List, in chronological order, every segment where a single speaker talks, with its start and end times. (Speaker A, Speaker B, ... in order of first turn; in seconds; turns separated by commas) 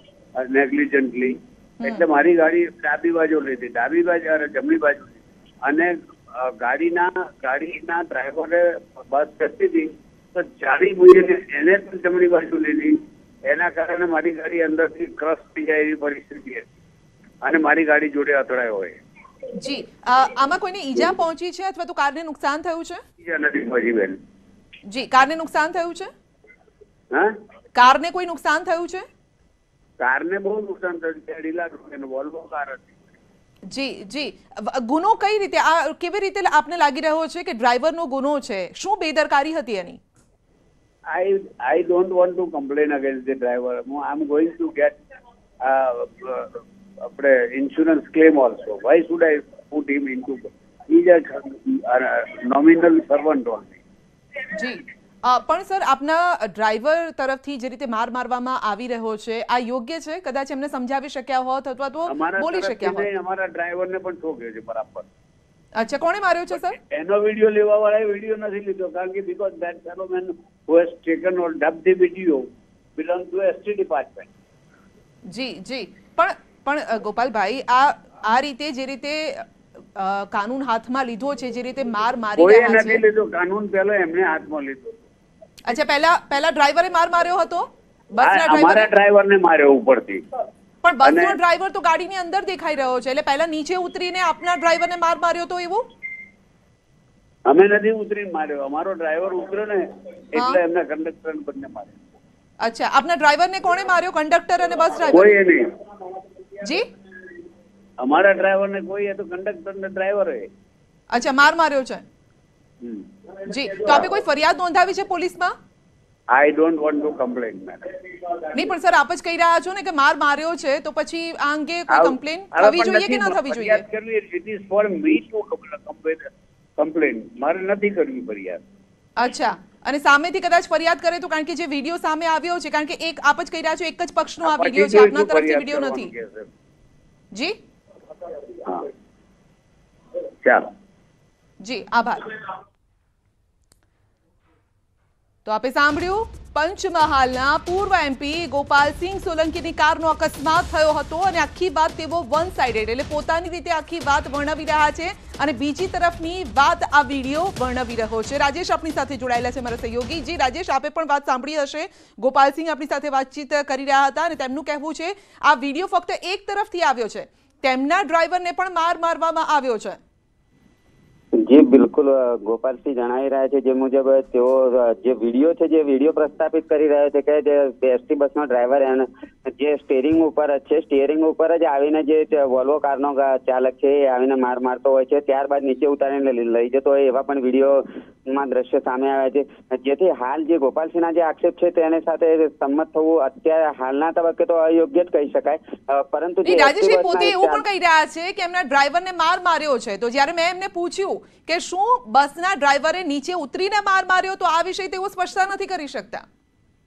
Speaker A: 0.4-16.6, Speaker A: 17.4-19.0, Speaker B: 19.6-23.0, Speaker A: 23.2-24.2, Speaker B: 24.9-26.1, Speaker B: 27.8-29.1, Speaker A: 30.0-32.9, Speaker B: 33.7-40.0, Speaker A: 41.1-45.0, Speaker A: 45.6-53.8, Speaker B: 54.6-63.1, Speaker A: 62.1-65.1, Speaker B: 65.8-66.8, Speaker A: 66.5-74.3, Speaker B: 75.3-83.0, Speaker A: 82.4-85.0, Speaker B: 85.7-88.9, Speaker A: 88.2-90.2, Speaker B: 90.8-95.8, Speaker A: 91.0-91.4, Speaker A: 97.5-102.0, Speaker B: 102.6-105.4, Speaker A: 105.1-105.6, Speaker A: 108.0-110.5, Speaker B: 111.1-112.0, Speaker B: 113.5-115.5, Speaker A: 116.3-117.9, Speaker B: 118.5-123.8, Speaker A: 121.9-128.6, Speaker B: 129.2-136.1, Speaker A: 134.4-136.5, Speaker A: 140.4-140.7, Speaker B: 141.6-142.2, Speaker B: 145.5-170.0, Speaker C: 171.4-197.6, Speaker B: 196.4-206.2